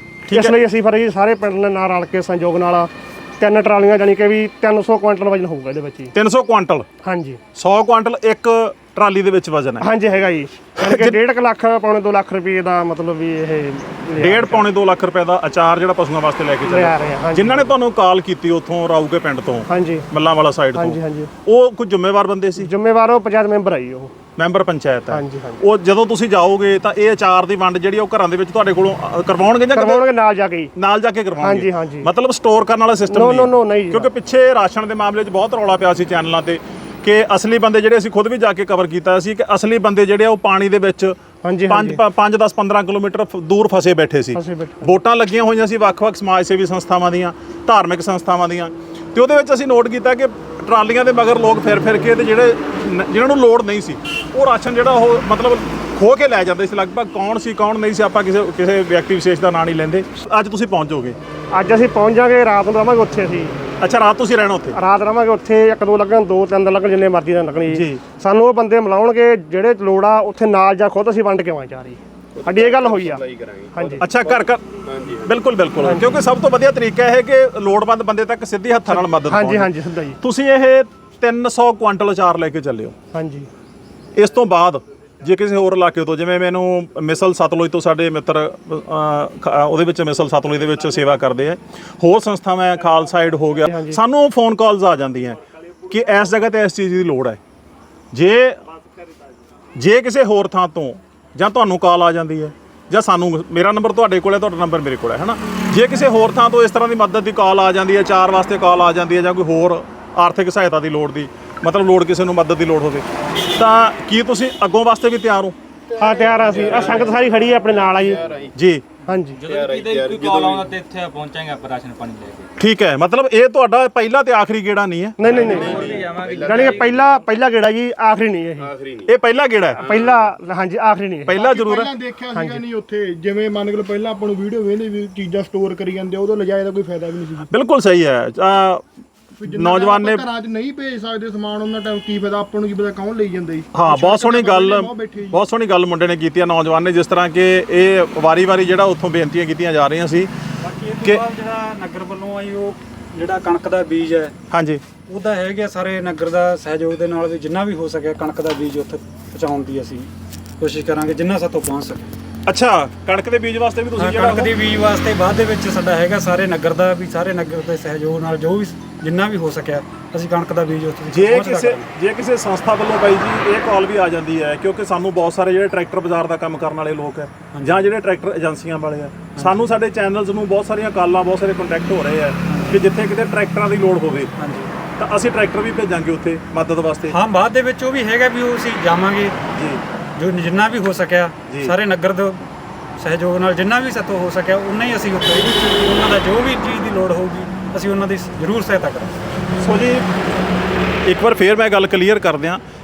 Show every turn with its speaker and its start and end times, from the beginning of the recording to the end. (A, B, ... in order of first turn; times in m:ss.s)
0:00.3-0:00.5 A
0:00.3-0:06.1 B
0:06.1-0:06.9 A
0:07.0-0:07.4 B
0:07.6-0:09.9 A
0:09.8-0:14.7 B
0:10.8-0:11.2 A
0:14.2-0:22.7 A
0:16.7-0:17.8 B
0:19.7-0:20.1 B
0:20.8-0:21.3 B
0:22.6-0:24.1 B
0:24.4-0:30.0 A
0:25.1-0:25.6 B
0:29.8-0:30.7 B
0:30.8-1:01.2 A
0:31.4-0:32.1 B
0:33.1-0:34.1 B
0:41.4-0:42.0 B
0:44.3-0:44.9 B
1:01.5-1:03.6 B
1:03.8-1:04.8 A
1:04.7-1:14.1 B
1:07.7-1:08.0 A
1:12.5-1:14.0 C
1:14.0-1:23.0 A
1:15.8-1:16.2 B
1:18.9-1:20.2 B
1:23.1-1:23.5 B
1:24.2-1:37.4 A
1:33.7-1:34.0 B
1:38.1-1:38.6 A
1:39.8-1:55.6 A
1:56.0-1:58.3 B
1:58.6-1:58.9 A
1:59.1-1:59.4 B
1:59.4-2:02.5 D
1:59.5-2:00.7 C
2:02.6-2:05.6 A
2:05.2-2:08.7 B
2:05.5-2:06.8 D
2:06.2-2:06.7 C
2:09.0-2:10.0 A
2:09.8-2:11.4 B
2:11.3-2:11.9 A
2:11.4-2:17.5 C
2:12.3-2:12.6 B
2:17.5-2:18.8 A
2:19.4-2:25.4 C
2:19.4-2:20.2 A
2:23.7-2:30.3 A
2:30.6-2:34.4 E
2:34.5-2:34.8 A
2:35.1-2:42.2 E
2:42.5-2:44.5 A
2:44.0-2:51.9 E
2:51.1-3:04.3 A
2:57.5-2:57.8 E
2:59.4-2:59.7 E
3:02.5-3:02.9 E
3:04.4-3:04.7 E
3:05.0-3:07.2 A
3:07.1-3:09.4 E
3:09.5-3:09.8 A
3:10.2-3:19.3 E
3:11.5-3:11.7 A
3:19.6-3:20.1 A
3:21.1-3:22.6 A